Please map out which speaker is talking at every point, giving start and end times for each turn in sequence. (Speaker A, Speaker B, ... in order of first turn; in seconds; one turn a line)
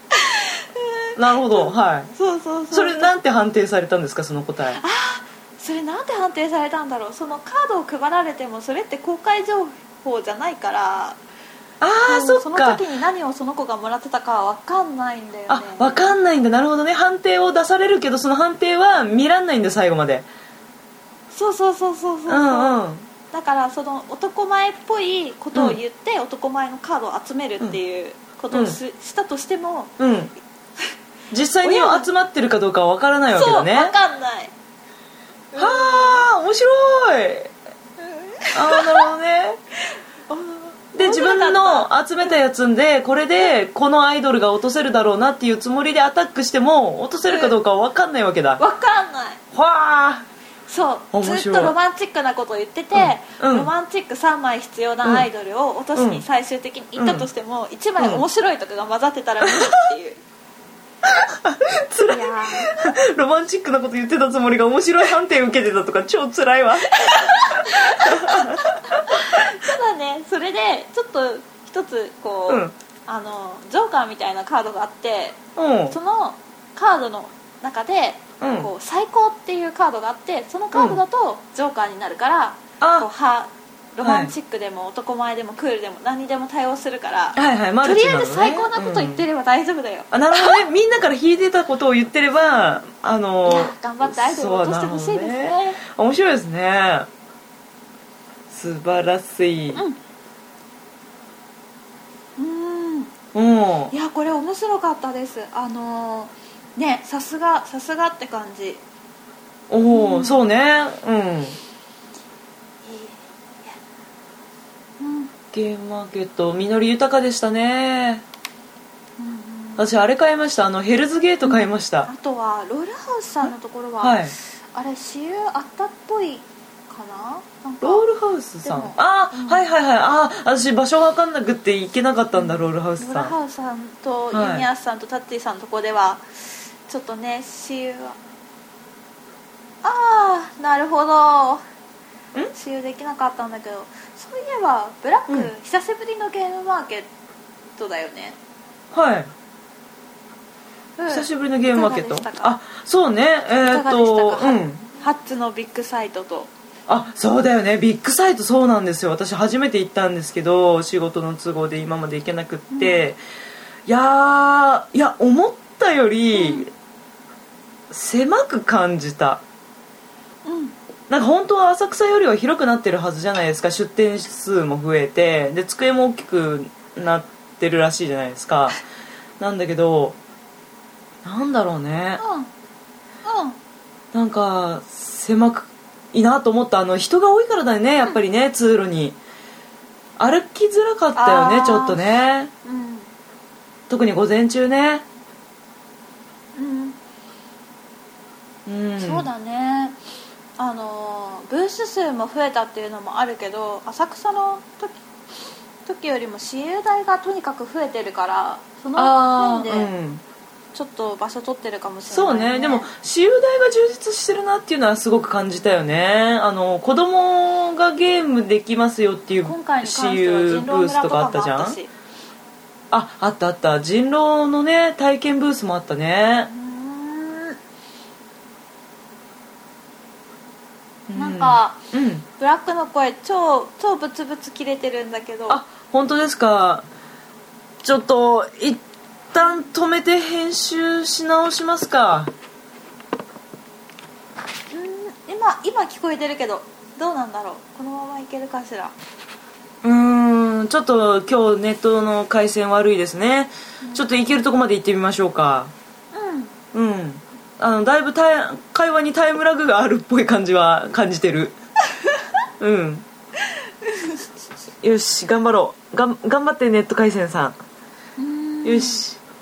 Speaker A: 0.1-3.1
Speaker B: 1.1-2.1
Speaker B: 2.7-4.8
Speaker A: 4.8-11.2
Speaker B: 11.8-12.8
Speaker A: 12.0-16.1
Speaker B: 15.5-20.2
Speaker A: 21.3-22.8
Speaker B: 22.3-23.1
Speaker A: 23.3-29.9
Speaker B: 28.5-28.8
Speaker B: 30.0-30.3
Speaker B: 31.3-33.9
Speaker A: 31.6-32.1
Speaker A: 33.3-34.5
Speaker A: 35.5-36.2
Speaker B: 35.5-37.5
Speaker A: 38.0-39.1
Speaker B: 38.5-39.6
Speaker A: 39.9-41.9
Speaker B: 40.9-48.6
Speaker A: 47.2-47.5
Speaker A: 48.6-49.4
Speaker B: 49.5-50.2
Speaker A: 50.7-60.2
Speaker B: 51.1-51.8
Speaker B: 52.9-53.7
Speaker B: 55.0-55.3
Speaker B: 56.0-56.2
Speaker B: 57.0-57.3
Speaker B: 58.0-58.2
Speaker B: 59.4-59.7
Speaker B: 61.0-69.4
Speaker A: 62.1-62.9
Speaker A: 66.9-90.7
Speaker B: 72.5-72.7
Speaker B: 75.5-76.0
Speaker B: 78.4-78.7
Speaker B: 80.7-81.0
Speaker B: 82.8-83.1
Speaker B: 84.0-84.3
Speaker B: 87.4-89.2
Speaker B: 90.1-97.1
Speaker A: 92.5-92.8
Speaker A: 93.5-95.8
Speaker B: 98.5-99.8
Speaker A: 99.7-100.0
Speaker A: 102.4-103.1
Speaker B: 103.3-103.9
Speaker A: 103.9-108.8
Speaker B: 109.7-111.6
Speaker A: 109.9-110.4
Speaker A: 112.8-113.8
Speaker A: 115.0-115.3
Speaker B: 115.5-118.2
Speaker A: 119.2-119.9
Speaker B: 119.8-122.1
Speaker A: 121.4-128.0
Speaker B: 123.4-124.3
Speaker B: 127.8-133.3
Speaker A: 128.6-129.7
Speaker A: 132.3-138.2
Speaker B: 134.3-134.7
Speaker A: 139.8-141.6
Speaker A: 142.5-147.1
Speaker A: 147.8-148.4
Speaker B: 148.9-149.3
Speaker A: 151.0-152.6
Speaker B: 151.1-154.9
Speaker A: 153.7-156.5
Speaker B: 156.9-163.2
Speaker A: 162.7-163.1
Speaker B: 163.9-166.7
Speaker A: 166.3-166.7
Speaker B: 167.9-169.4
Speaker A: 170.4-170.8
Speaker B: 171.1-178.8
Speaker B: 179.4-180.2
Speaker B: 181.2-182.2
Speaker A: 182.2-182.5
Speaker A: 183.2-183.6
Speaker B: 184.1-189.2
Speaker B: 190.2-192.5
Speaker A: 191.1-192.0
Speaker A: 192.6-193.1
Speaker B: 193.9-195.0
Speaker A: 196.5-197.0
Speaker B: 198.7-199.3
Speaker A: 199.0-200.0
Speaker A: 200.6-205.0
Speaker A: 205.9-209.9
Speaker B: 209.0-210.2
Speaker A: 210.7-212.9
Speaker B: 212.1-221.8
Speaker A: 219.4-221.9
Speaker B: 222.9-226.5
Speaker A: 226.5-227.6
Speaker B: 231.1-232.2
Speaker A: 231.2-231.8
Speaker A: 232.4-235.6
Speaker B: 235.5-236.9
Speaker B: 237.8-242.3
Speaker A: 244.7-248.9
Speaker B: 249.8-255.7
Speaker A: 253.8-254.1
Speaker A: 256.1-256.5
Speaker B: 256.7-261.5
Speaker B: 262.6-263.0
Speaker A: 263.8-264.2
Speaker B: 264.8-267.6
Speaker A: 268.2-269.0
Speaker B: 268.6-269.2